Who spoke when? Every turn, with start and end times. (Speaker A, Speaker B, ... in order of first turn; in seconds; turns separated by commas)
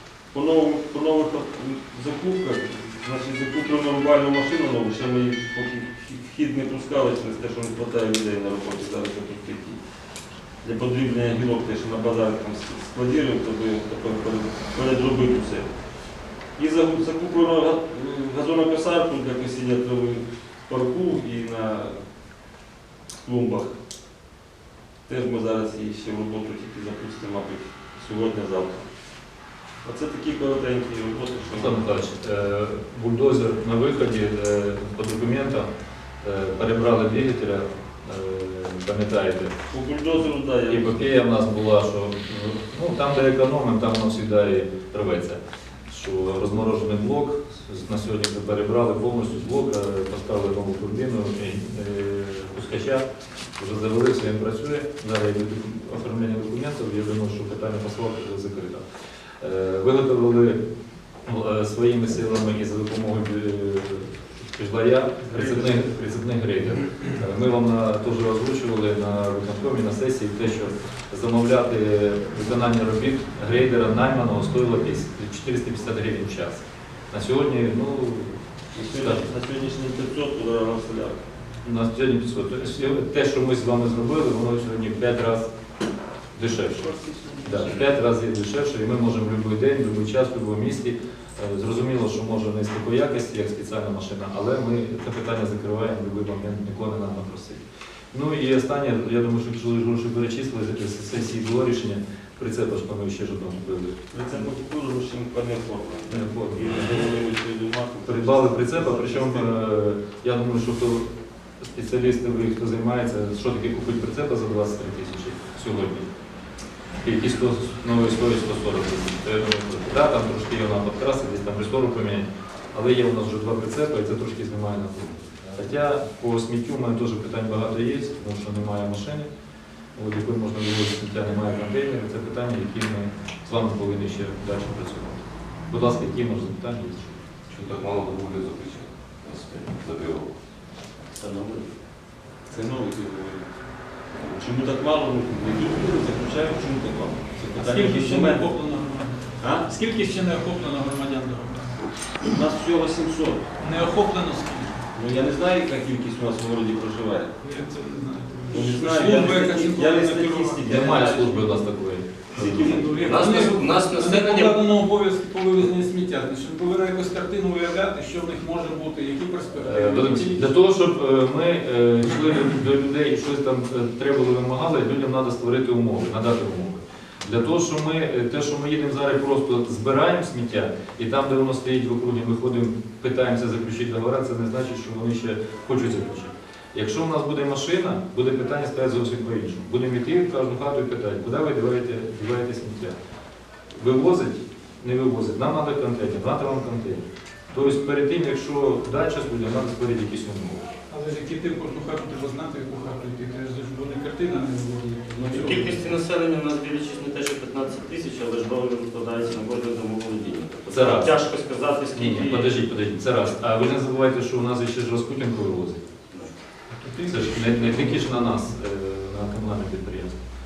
Speaker A: 0.3-9.8, Speaker A: 10.6-15.7, Speaker A: 16.6-22.0, Speaker A: 23.2-23.8, Speaker A: 25.1-28.9, Speaker A: 29.8-31.8, Speaker B: 31.6-35.7, Speaker B: 36.2-39.5, Speaker A: 39.7-41.1, Speaker B: 40.7-53.0, Speaker B: 53.6-58.8, Speaker B: 59.4-60.6, Speaker B: 61.2-79.3, Speaker A: 65.3-65.9, Speaker A: 78.7-81.2, Speaker B: 81.6-85.5, Speaker B: 86.3-103.9, Speaker A: 104.1-109.5, Speaker B: 106.1-107.0, Speaker B: 108.0-116.1, Speaker B: 117.0-129.3, Speaker B: 129.9-137.2, Speaker C: 137.5-140.3, Speaker D: 141.3-141.7, Speaker A: 142.5-143.5, Speaker A: 144.2-148.5, Speaker E: 147.5-151.8, Speaker A: 149.4-149.7, Speaker A: 152.2-153.5, Speaker E: 153.6-154.8, Speaker A: 154.9-157.3, Speaker E: 157.4-160.6, Speaker A: 158.5-161.6, Speaker B: 160.6-162.8, Speaker A: 162.3-163.2, Speaker E: 162.6-170.5, Speaker D: 163.0-164.6, Speaker B: 169.6-192.9, Speaker B: 193.7-200.7, Speaker E: 200.9-205.9, Speaker D: 205.2-212.6, Speaker B: 210.7-211.2, Speaker B: 211.9-215.8, Speaker E: 216.8-217.3, Speaker B: 217.1-220.2